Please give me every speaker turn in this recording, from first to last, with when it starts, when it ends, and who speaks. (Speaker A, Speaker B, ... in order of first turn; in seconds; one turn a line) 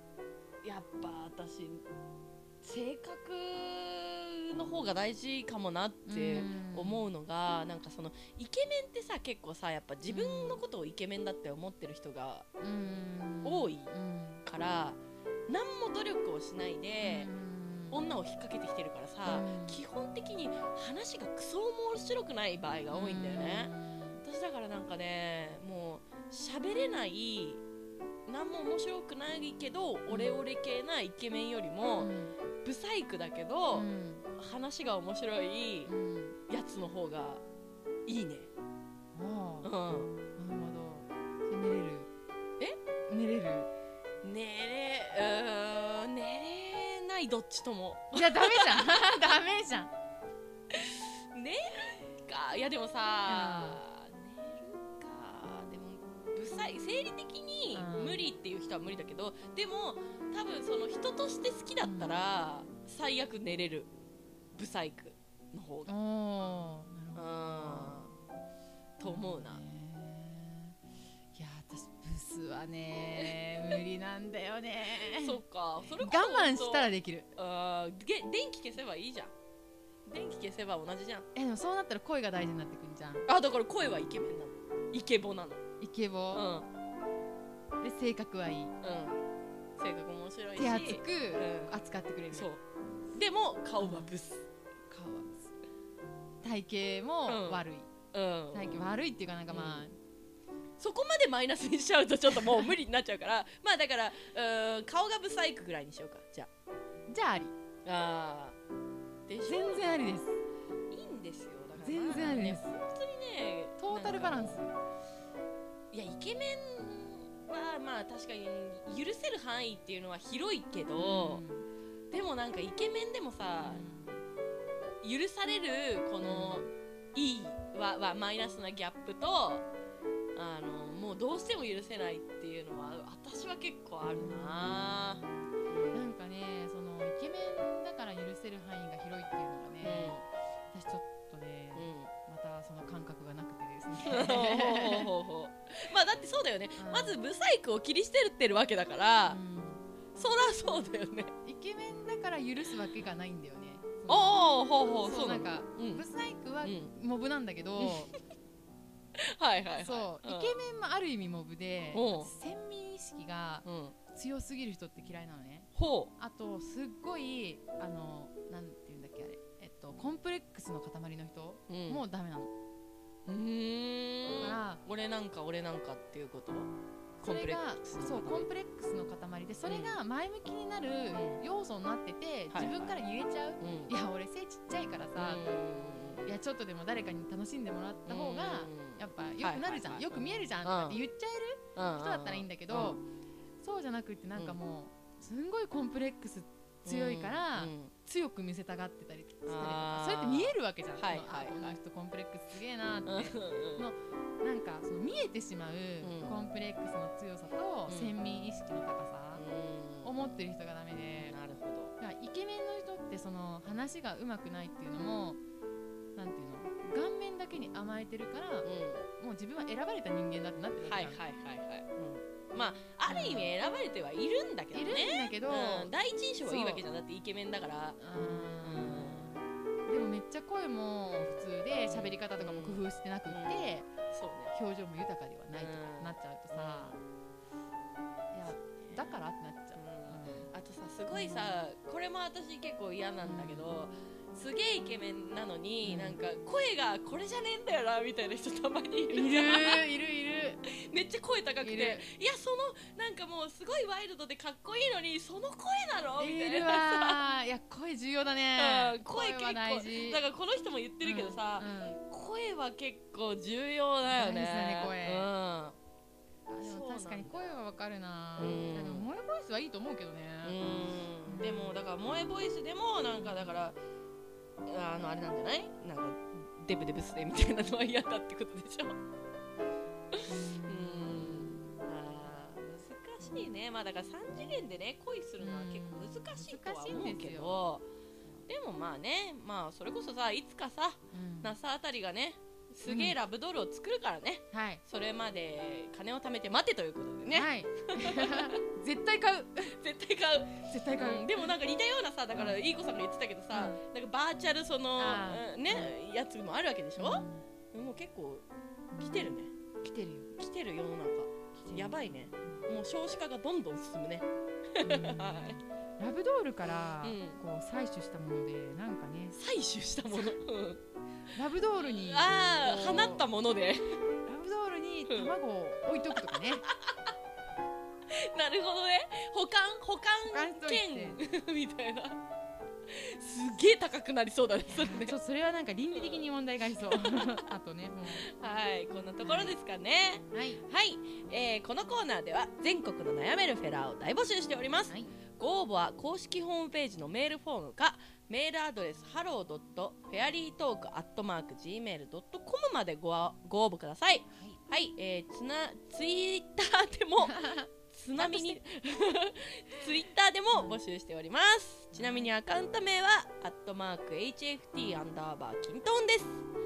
Speaker A: 0.6-1.9
Speaker A: 2.6-12.5
Speaker B: 6.1-7.0
Speaker B: 10.1-10.6
Speaker B: 12.6-14.4
Speaker A: 13.4-13.9
Speaker A: 14.4-17.3
Speaker B: 17.0-18.1
Speaker A: 17.9-23.7
Speaker B: 19.3-19.8
Speaker B: 22.9-24.2
Speaker A: 24.2-27.6
Speaker A: 28.3-32.1
Speaker B: 30.1-30.4
Speaker B: 32.0-32.4
Speaker A: 32.6-35.9
Speaker B: 33.7-34.3
Speaker B: 35.9-36.4
Speaker A: 36.5-37.4
Speaker A: 38.1-38.5
Speaker B: 39.1-39.7
Speaker A: 39.6-40.1
Speaker B: 40.3-42.1
Speaker B: 43.1-43.7
Speaker A: 44.2-49.3
Speaker B: 48.1-49.9
Speaker A: 50.7-63.9
Speaker B: 53.3-53.8
Speaker B: 57.7-58.2
Speaker B: 61.8-62.2
Speaker A: 64.5-65.9
Speaker B: 65.9-68.1
Speaker A: 67.2-68.1
Speaker A: 69.0-69.6
Speaker B: 69.0-70.8
Speaker B: 71.3-75.4
Speaker A: 75.1-79.3
Speaker B: 76.0-77.3
Speaker A: 80.1-81.3
Speaker B: 81.3-83.3
Speaker A: 83.3-85.6
Speaker B: 85.8-86.5
Speaker A: 86.3-86.7
Speaker B: 87.8-88.7
Speaker A: 88.8-89.2
Speaker A: 89.8-91.8
Speaker B: 90.5-92.5
Speaker A: 92.3-92.6
Speaker A: 93.1-94.5
Speaker B: 93.8-94.1
Speaker B: 94.9-95.5
Speaker B: 96.4-97.9
Speaker A: 97.3-98.9
Speaker B: 98.5-100.0
Speaker A: 99.5-99.8
Speaker A: 100.8-106.5
Speaker B: 107.1-107.5
Speaker A: 107.8-108.6
Speaker A: 109.3-110.2
Speaker B: 109.5-110.4
Speaker A: 110.9-114.6
Speaker B: 111.8-112.7
Speaker B: 113.8-114.7
Speaker A: 115.9-121.4
Speaker B: 121.0-121.7
Speaker A: 122.1-123.8
Speaker B: 123.6-124.2
Speaker A: 125.0-129.7
Speaker B: 126.2-126.7
Speaker A: 130.3-136.1
Speaker B: 134.1-135.3
Speaker B: 135.9-140.2
Speaker A: 139.8-140.2
Speaker B: 140.7-145.1
Speaker A: 141.8-142.1
Speaker A: 144.1-149.4
Speaker B: 146.8-147.2
Speaker B: 149.3-149.8
Speaker A: 150.2-151.3
Speaker B: 151.4-158.1
Speaker A: 154.1-156.0
Speaker A: 156.6-156.9
Speaker A: 159.2-160.6
Speaker B: 159.8-172.5
Speaker A: 161.9-162.3
Speaker A: 163.7-163.9
Speaker A: 165.8-166.1
Speaker A: 171.7-172.0
Speaker A: 173.3-178.5
Speaker B: 174.4-174.8
Speaker B: 177.2-185.5
Speaker A: 179.7-179.9
Speaker A: 181.1-181.4
Speaker A: 182.5-183.0
Speaker A: 183.6-183.9
Speaker A: 185.2-186.3
Speaker B: 186.2-193.0
Speaker A: 188.1-191.0
Speaker A: 191.8-193.0
Speaker B: 193.6-209.4
Speaker A: 196.8-197.9
Speaker A: 199.5-201.8
Speaker A: 203.1-203.9
Speaker A: 206.0-206.4
Speaker A: 207.9-208.1
Speaker A: 209.4-210.4
Speaker B: 210.0-211.4
Speaker A: 211.2-211.9
Speaker B: 212.0-215.4
Speaker B: 216.2-221.2
Speaker A: 218.6-219.1
Speaker A: 220.8-228.0
Speaker B: 223.1-223.5
Speaker B: 224.7-226.8
Speaker B: 228.0-233.9
Speaker A: 228.6-229.3
Speaker A: 231.1-231.3
Speaker A: 231.9-234.5
Speaker B: 234.5-237.0
Speaker A: 235.5-237.0
Speaker B: 238.3-240.5
Speaker A: 238.6-239.2
Speaker A: 239.8-249.8
Speaker B: 241.1-241.6
Speaker B: 243.2-243.7
Speaker B: 245.8-246.2
Speaker B: 249.1-250.6
Speaker A: 250.7-257.2
Speaker B: 251.6-252.1
Speaker B: 256.2-260.2
Speaker A: 258.6-265.8
Speaker B: 261.0-262.0
Speaker B: 264.1-265.3
Speaker B: 266.5-270.6
Speaker A: 266.6-267.3
Speaker A: 268.4-269.1
Speaker A: 270.4-273.8
Speaker B: 271.3-271.8
Speaker A: 274.6-279.0
Speaker A: 280.1-287.9
Speaker B: 280.3-281.8
Speaker B: 285.4-287.6
Speaker A: 288.5-298.6
Speaker B: 291.1-291.5
Speaker B: 292.9-293.2
Speaker B: 294.5-294.8
Speaker B: 297.3-299.7
Speaker A: 299.7-308.5
Speaker B: 300.7-301.5
Speaker B: 302.3-302.6
Speaker B: 303.5-303.8
Speaker B: 305.0-305.9
Speaker B: 307.0-307.4
Speaker B: 308.9-310.3
Speaker A: 309.0-309.5
Speaker A: 310.4-315.6
Speaker B: 311.5-312.6
Speaker B: 314.8-319.4
Speaker A: 317.0-317.4
Speaker A: 319.4-320.8
Speaker B: 320.1-320.4
Speaker B: 321.3-323.2
Speaker A: 321.8-324.0
Speaker B: 324.3-326.7
Speaker A: 325.1-325.3
Speaker A: 326.3-327.1
Speaker A: 328.1-332.2
Speaker B: 330.2-331.2
Speaker A: 332.9-335.2
Speaker B: 334.7-338.3
Speaker A: 335.9-337.4
Speaker A: 338.1-366.5
Speaker B: 339.2-339.6
Speaker B: 340.3-340.6
Speaker B: 357.2-358.6
Speaker B: 362.0-362.2